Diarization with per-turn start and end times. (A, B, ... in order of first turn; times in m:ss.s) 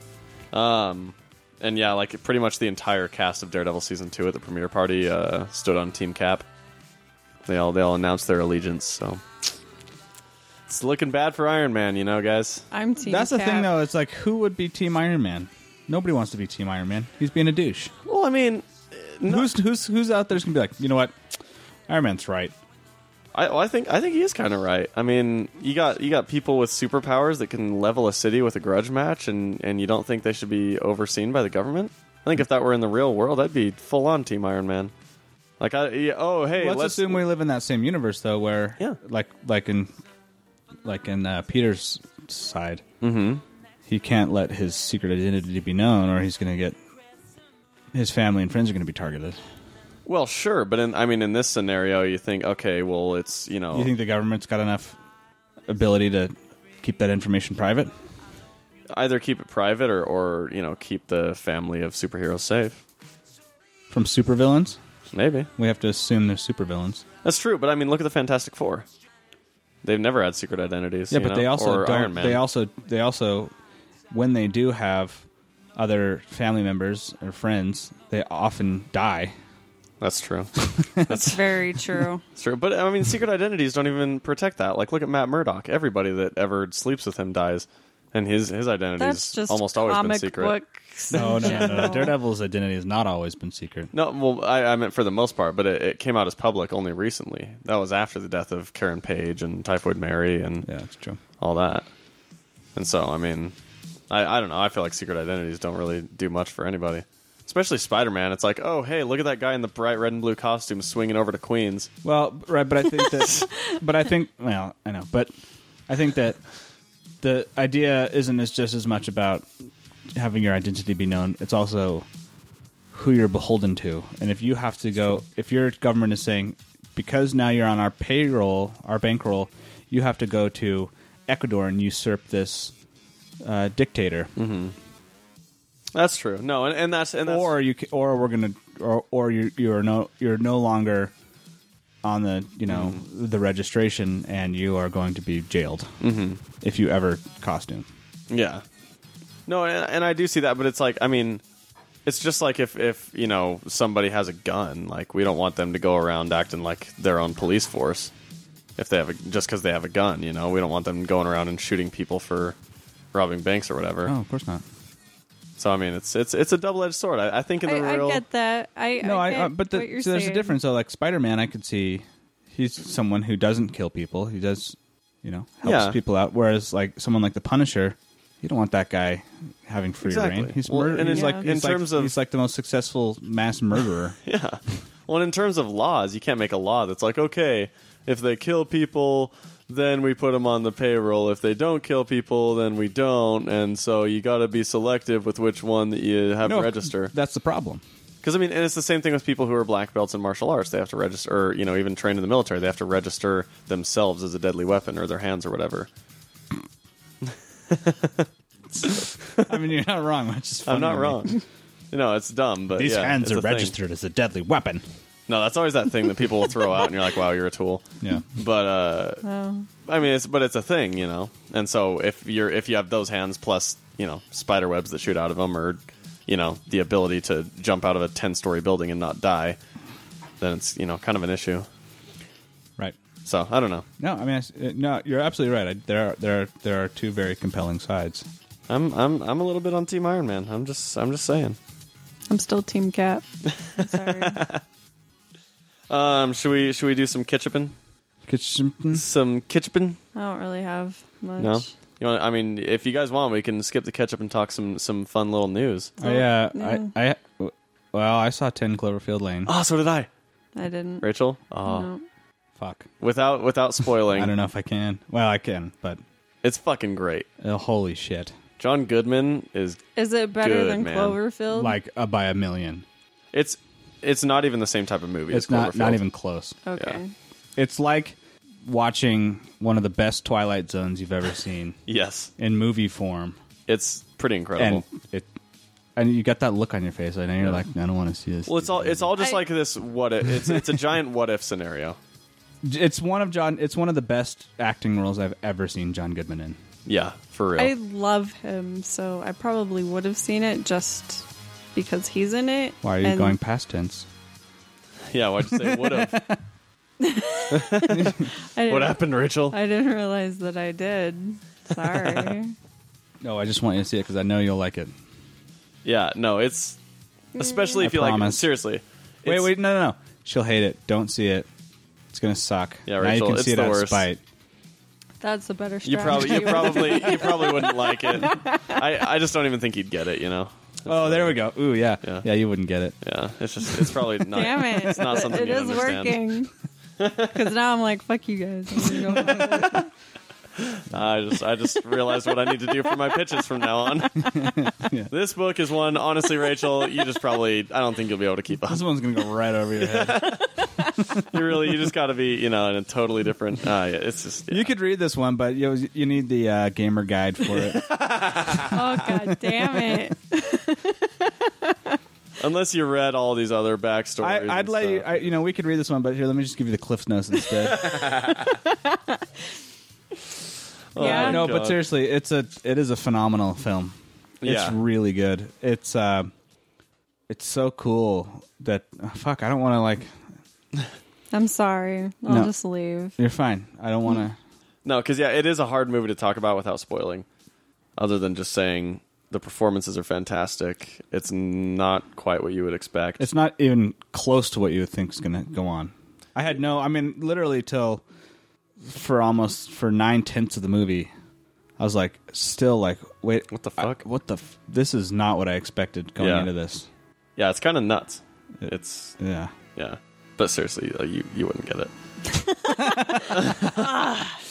0:00.5-0:06.5 A
0:07.5-0:09.2 A
0:10.7-0:12.7 A
0:12.7-0:13.7 B
0:13.1-0:17.9 C
0:18.1-0:19.5 A
0:19.3-0:21.2 C
0:21.9-0:22.5 C
0:23.4-0:34.9 A
0:35.6-0:37.2 A
0:36.6-0:39.9 C
0:40.8-0:42.8 C
0:43.0-0:43.4 A
0:43.9-0:46.8 C
0:47.9-0:49.4 C
0:50.1-0:53.9 A
0:53.7-0:55.0 C
0:55.7-0:57.9 C
0:58.9-1:02.8 A
1:03.9-1:04.8 C
1:05.1-1:05.5 A
1:05.6-1:07.0 C
1:07.2-1:08.9 A
1:09.8-1:12.4 A
1:11.1-1:13.5 C
1:14.1-1:15.2 C
1:15.8-1:19.3 C
1:20.0-1:21.4 A
1:21.1-1:22.2 B
1:22.4-1:30.6 A
1:29.0-1:32.2 B
1:31.1-1:33.9 C
1:31.1-1:32.0 A
1:33.9-1:40.7 A
1:40.7-1:41.2 C
1:41.4-1:41.9 A
1:42.8-1:43.5 A
1:44.1-1:51.9 A
1:52.0-1:55.3 C
1:55.9-1:56.4 C
1:57.2-1:59.5 C
2:00.1-2:02.1 C
2:02.9-2:12.7 C
2:13.4-2:14.3 C
2:14.4-2:14.7 A
2:16.0-2:17.5 A
2:17.2-2:21.1 C
2:22.0-2:25.9 C
2:22.7-2:23.0 A
2:26.0-2:26.4 A
2:26.6-2:27.9 C
2:28.3-2:28.6 A
2:29.5-2:31.4 A
2:32.1-2:38.1 A
2:38.8-2:42.6 A
2:43.1-2:44.1 A
2:44.1-2:44.6 C
2:45.6-2:48.2 A
2:47.6-2:50.6 B
2:49.0-3:04.2 C
2:55.6-2:56.0 A
3:00.0-3:02.2 A
3:01.1-3:01.4 B
3:04.2-3:17.1 A
3:16.4-3:17.8 C
3:18.2-3:25.9 A
3:27.2-3:28.3 A
3:28.8-3:31.3 C
3:28.8-3:29.5 A
3:30.6-3:31.4 A
3:31.9-3:33.8 A
3:32.8-3:34.8 C
3:35.3-3:37.8 A
3:38.0-3:38.3 C
3:38.4-3:39.2 A
3:39.2-3:39.7 B
3:39.8-3:49.6 A
3:50.4-3:51.7 A
3:53.2-3:53.9 A
3:54.0-3:58.3 C
3:58.7-4:01.6 A
4:02.3-4:04.4 B
4:03.4-4:04.6 A
4:05.9-4:07.7 A
4:08.3-4:09.0 C
4:08.9-4:10.0 A
4:10.2-4:11.7 B
4:11.4-4:15.9 A
4:16.0-4:16.9 B
4:16.0-4:19.5 C
4:19.5-4:20.1 A
4:20.6-4:21.1 B
4:21.0-4:21.9 A
4:21.6-4:22.0 B
4:22.6-4:22.9 C
4:23.0-4:24.3 A
4:24.1-4:26.0 C
4:26.4-4:27.3 A
4:27.4-4:28.3 C
4:28.6-4:29.8 A
4:30.0-4:31.8 B
4:30.4-4:31.2 A
4:31.5-4:32.8 C
4:33.3-4:36.0 A
4:35.3-4:36.6 C
4:36.6-4:37.1 B
4:37.6-4:41.8 C
4:41.9-4:42.3 A
4:42.4-4:43.4 C
4:43.7-4:44.9 A
4:44.6-4:45.3 C
4:46.0-4:49.1 C
4:48.5-4:52.0 A
4:49.2-4:49.4 B
4:52.6-4:56.6 C
4:56.9-4:57.7 A
4:57.6-5:03.4 B
5:02.8-5:04.1 C
5:05.1-5:06.2 A
5:05.5-5:06.4 C
5:07.0-5:12.6 B
5:07.5-5:09.6 A
5:07.5-5:08.3 C
5:13.2-5:14.9 C
5:15.8-5:16.8 A
5:17.3-5:19.5 A
5:17.4-5:17.8 B
5:17.8-5:18.5 C
5:19.2-5:21.5 C
5:22.1-5:24.2 C
5:22.9-5:24.1 A
5:25.2-5:28.8 B
5:25.8-5:31.4 A
5:30.9-5:33.0 C
5:33.0-5:36.2 A
5:34.3-5:36.5 B
5:37.0-5:37.4 A
5:37.3-5:39.9 B
5:39.1-5:39.8 C
5:40.6-5:44.3 A
5:44.2-5:45.1 C
5:45.1-5:48.8 A
5:48.7-5:50.3 C
5:49.8-5:50.5 A
5:51.1-5:54.7 A
5:54.5-6:00.0 C
5:57.8-5:58.8 A
5:58.7-6:02.0 B
6:02.4-6:05.3 A
6:04.2-6:08.1 C
6:07.7-6:08.6 A
6:08.4-6:09.2 B
6:10.9-6:11.8 A
6:11.0-6:11.5 B
6:11.0-6:16.3 C
6:14.4-6:14.8 A
6:17.3-6:20.2 C
6:21.3-6:23.2 B
6:22.3-6:22.5 C
6:23.2-6:24.4 C
6:24.8-6:27.3 A
6:28.0-6:33.3 A
6:33.2-6:38.0 C
6:38.8-6:41.1 C
6:41.8-6:46.9 C
6:43.5-6:44.0 A
6:46.2-6:46.5 A
6:47.4-6:49.2 A
6:49.2-6:49.5 C
6:49.8-6:51.9 A
6:52.3-6:54.3 B
6:52.8-6:53.4 C
6:53.2-6:54.1 A